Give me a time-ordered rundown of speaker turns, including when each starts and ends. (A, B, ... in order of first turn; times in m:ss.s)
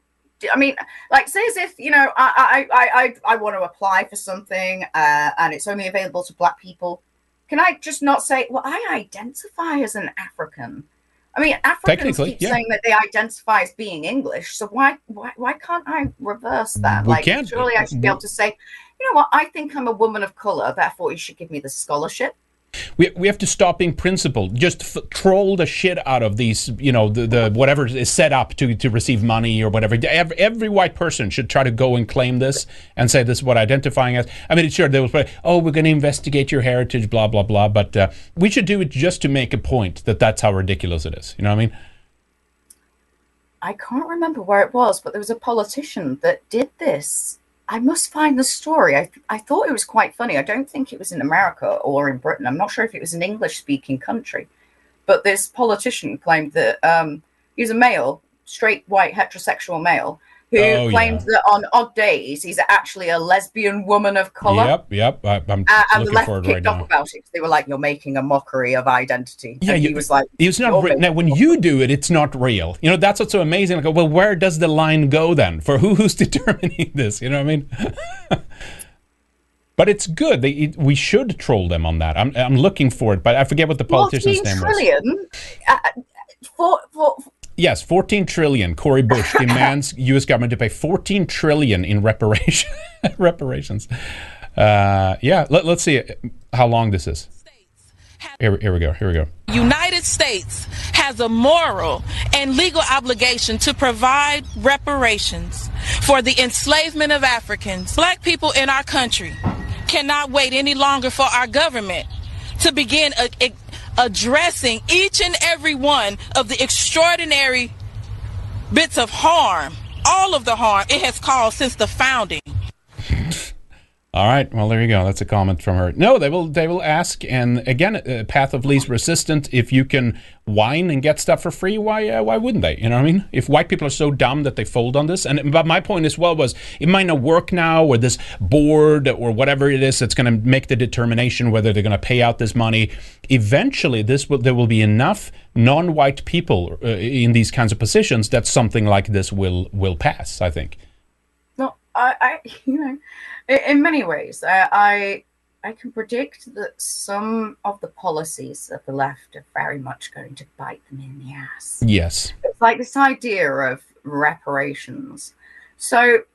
0:00.4-0:22.3 A
0:11.8-0:12.6 B
0:16.8-0:18.2 B
0:23.0-0:41.7 B
0:43.6-0:54.5 A
0:55.1-1:04.8 A
1:00.6-1:01.2 B
1:04.4-1:06.8 B
1:05.7-1:11.4 A
1:09.6-1:18.4 B
1:19.8-1:24.8 B
1:23.9-1:25.9 A
1:26.5-1:27.2 A
1:27.6-1:33.9 B
1:29.2-1:29.7 A
1:34.6-1:37.3 B
1:38.4-1:39.3 B
1:39.5-1:57.7 C
1:58.7-2:02.5 C
2:03.1-2:03.5 B
2:04.1-2:30.8 B
2:31.6-2:41.8 A
2:41.8-2:42.3 B
2:42.4-2:46.2 A